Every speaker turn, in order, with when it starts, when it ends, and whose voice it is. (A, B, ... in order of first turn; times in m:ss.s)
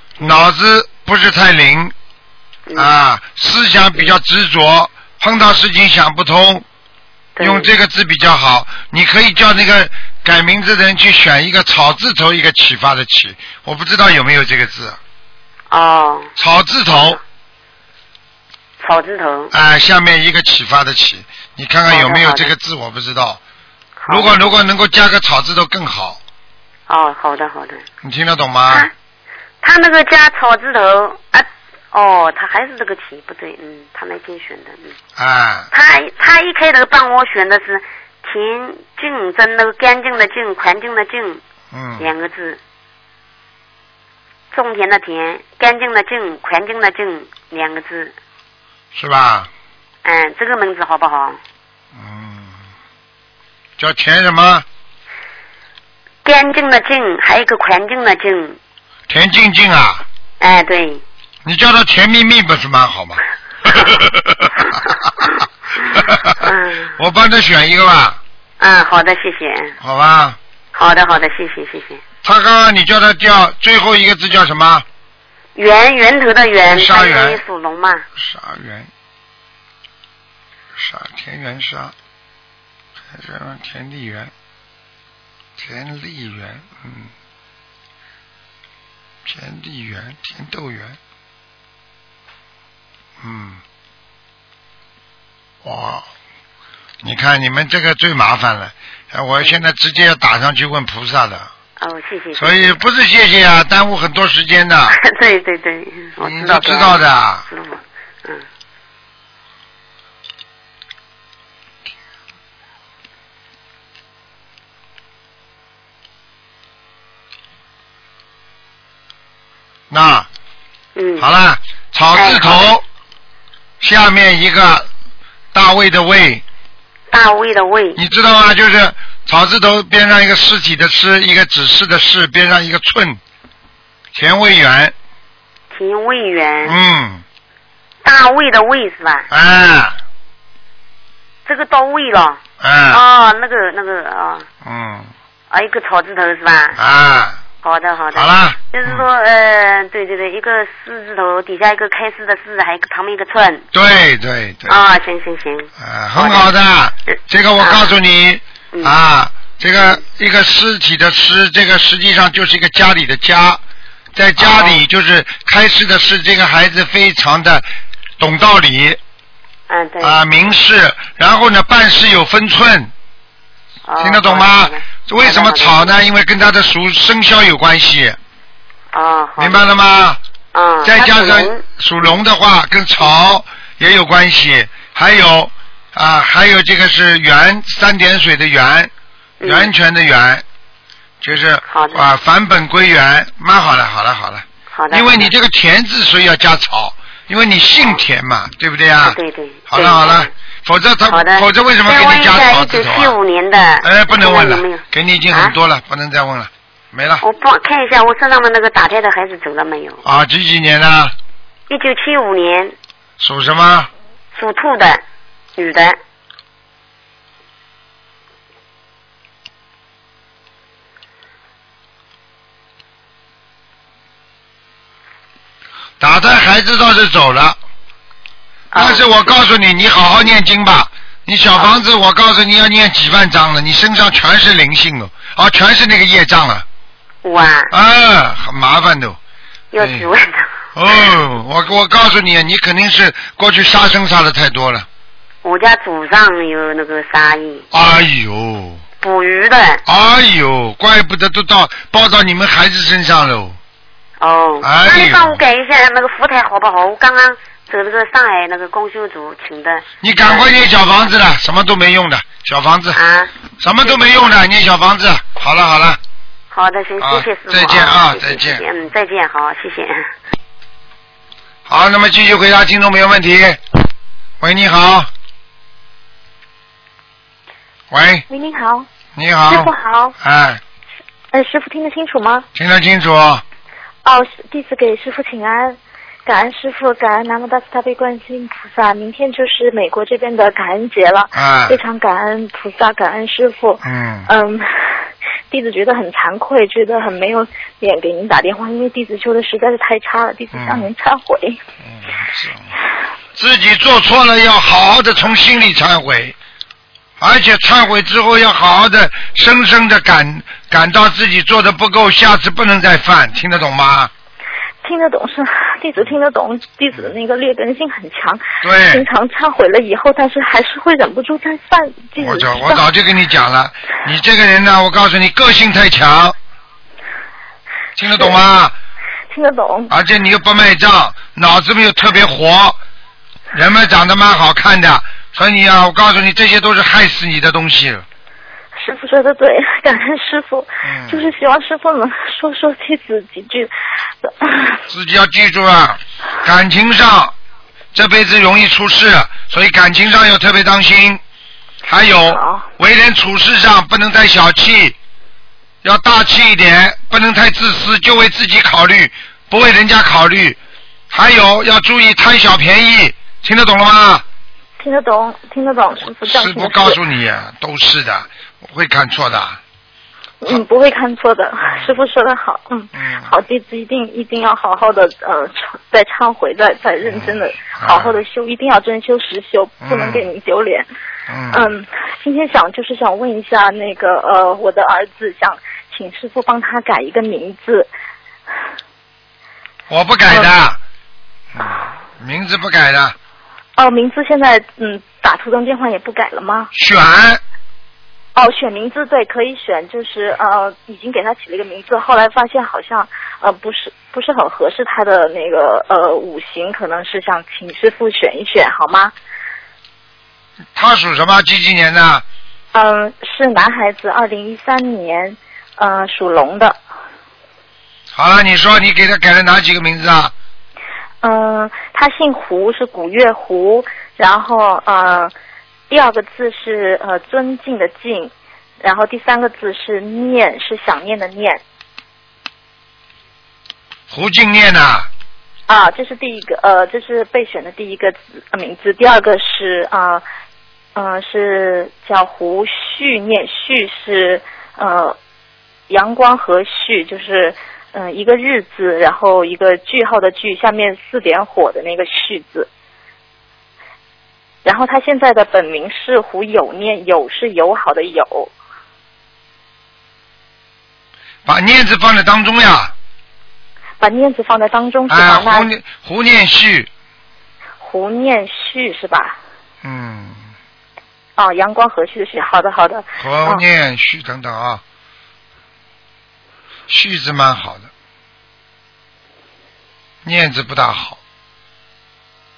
0:00.2-0:01.9 A
0:02.8-0:06.6 A
0:07.4-0:07.7 B
0:07.4-0:15.0 A
0:15.7-0:16.3 B
0:16.4-0:17.2 A
0:16.9-0:17.2 B
0:18.8-0:19.5 B
0:19.5-0:23.4 A
0:21.9-0:22.5 B
0:24.0-0:24.5 B
0:24.1-0:26.2 A
0:26.9-0:27.8 B
0:28.0-0:28.9 A
0:29.6-0:34.9 B
0:35.2-0:35.7 A
0:35.7-0:41.4 B
0:41.7-0:42.1 A
0:42.0-0:42.6 B
0:44.5-0:48.1 B
0:48.9-0:49.5 A
0:50.0-0:51.4 B
0:51.9-0:52.6 A
0:53.8-0:54.6 A
0:56.2-0:58.6 B
0:59.1-1:00.0 A
1:00.4-1:01.0 B
1:01.4-1:05.2 A
1:05.9-1:08.2 A
1:06.4-1:06.9 B
1:08.6-1:09.7 B
1:09.8-1:10.4 A
1:10.7-1:12.0 B
1:12.2-1:14.8 A
1:15.5-1:18.0 B
1:16.7-1:17.4 A
1:18.2-1:18.9 A
1:20.7-1:21.9 A
1:23.1-1:24.3 A
1:25.6-1:27.1 A
1:29.2-1:31.0 A
1:33.2-1:33.6 A
1:35.6-1:36.0 A
1:37.0-1:41.5 A
1:41.8-1:42.7 B
1:42.4-1:45.0 A
1:44.9-1:48.4 B
1:46.2-1:47.4 A
1:59.9-2:00.3 A
2:01.0-2:01.3 B
2:01.2-2:02.8 A
2:02.1-2:02.7 B
2:03.8-2:04.9 A
2:05.5-2:06.4 A
2:07.1-2:08.0 B
2:08.0-2:13.2 A
2:14.1-2:14.9 A
2:15.7-2:16.8 B
2:16.6-2:17.2 A
2:18.0-2:19.3 B
2:19.3-2:20.0 A
2:21.4-2:24.4 B
2:22.6-2:23.0 A
2:24.6-2:25.1 A
2:25.5-2:26.8 B
2:26.8-2:27.4 A
2:27.6-2:33.6 B
2:28.1-2:29.0 A
2:33.7-2:34.8 A
2:34.7-2:36.5 B
2:35.8-2:43.6 A
2:37.6-2:37.9 B
2:44.1-2:47.6 A
2:44.4-2:44.8 B
2:48.2-2:49.0 A
2:49.7-2:50.2 B
2:50.0-2:52.9 A
2:53.8-2:55.9 B
2:54.0-2:58.2 A
2:58.9-2:59.7 B
2:59.4-3:00.2 A
3:00.5-3:01.6 B
3:00.8-3:08.9 A
3:09.4-3:09.7 B
3:09.4-3:10.4 A
3:11.2-3:19.2 A
3:11.7-3:12.1 B
3:14.7-3:15.3 B
3:19.0-3:20.3 B
3:19.7-3:23.2 A
3:21.1-3:25.5 B
3:23.8-3:27.2 A
3:27.2-3:30.0 B
3:30.0-3:31.1 A
3:31.7-3:32.7 B
3:33.2-3:33.9 A
3:34.3-3:35.0 B
3:35.6-3:36.0 B
3:46.0-3:47.6 A
3:48.7-3:49.1 B
3:48.7-3:56.6 A
3:57.2-3:57.7 B
3:57.7-3:59.2 A
3:59.7-4:00.5 B
3:59.8-4:00.1 A
4:00.7-4:04.9 A
4:05.4-4:07.6 B
4:07.7-4:08.8 A
4:09.0-4:09.8 B
4:09.8-4:13.6 A
4:14.2-4:20.7 B
4:14.6-4:15.4 A
4:20.0-4:23.0 A
4:22.9-4:23.3 B
4:23.6-4:26.0 A
4:23.8-4:24.2 B
4:26.5-4:30.1 B
4:27.0-4:28.6 A
4:31.7-4:33.6 A
4:34.4-4:35.1 A
4:37.9-4:38.2 A
4:38.3-4:38.9 C
4:39.1-4:40.6 A
4:39.5-4:40.1 C
4:41.3-4:42.4 C
4:42.5-4:43.4 A
4:44.0-5:01.6 C
4:51.3-4:51.8 A
4:53.8-4:54.3 A
5:00.5-5:00.9 A
5:01.8-5:02.7 A
5:03.3-5:06.4 A
5:07.2-5:14.1 A
5:14.8-5:22.8 C
5:18.6-5:19.0 A
5:22.2-5:26.3 A
5:28.0-5:28.7 A
5:29.3-5:29.9 C
5:29.9-5:32.8 A
5:33.5-5:38.0 A
5:38.8-5:43.7 C
5:40.8-5:41.3 A
5:44.2-5:44.8 C
5:44.9-5:47.3 A
5:47.9-5:51.2 A
5:51.8-5:55.0 A
5:52.2-5:52.7 C
5:55.8-6:00.6 A
6:01.1-6:04.2 A
6:04.8-6:07.0 C
6:06.0-6:09.6 A
6:10.4-6:20.9 C
6:12.9-6:13.3 A
6:17.0-6:18.2 A
6:19.8-6:20.3 A
6:21.3-6:21.7 A
6:21.5-6:27.9 C
6:29.9-6:30.8 A
6:31.5-6:33.2 A
6:33.8-6:36.7 C
6:36.7-6:37.4 A
6:38.3-6:49.1 C
6:50.7-6:52.2 A
6:52.7-6:56.8 C
6:58.1-7:00.3 A
7:01.2-7:05.3 C
7:05.9-7:11.6 C
7:14.1-7:15.1 A
7:15.7-7:20.2 C
7:20.9-7:25.2 C
7:25.9-7:32.7 C
7:34.6-7:38.5 C
7:41.4-7:42.9 A
7:44.0-7:45.7 C
7:45.1-7:46.9 A
7:47.8-7:49.4 C
7:49.8-7:50.4 A
7:51.4-7:53.6 C
7:53.2-7:54.8 A
7:56.9-7:57.9 A
8:00.2-8:01.2 A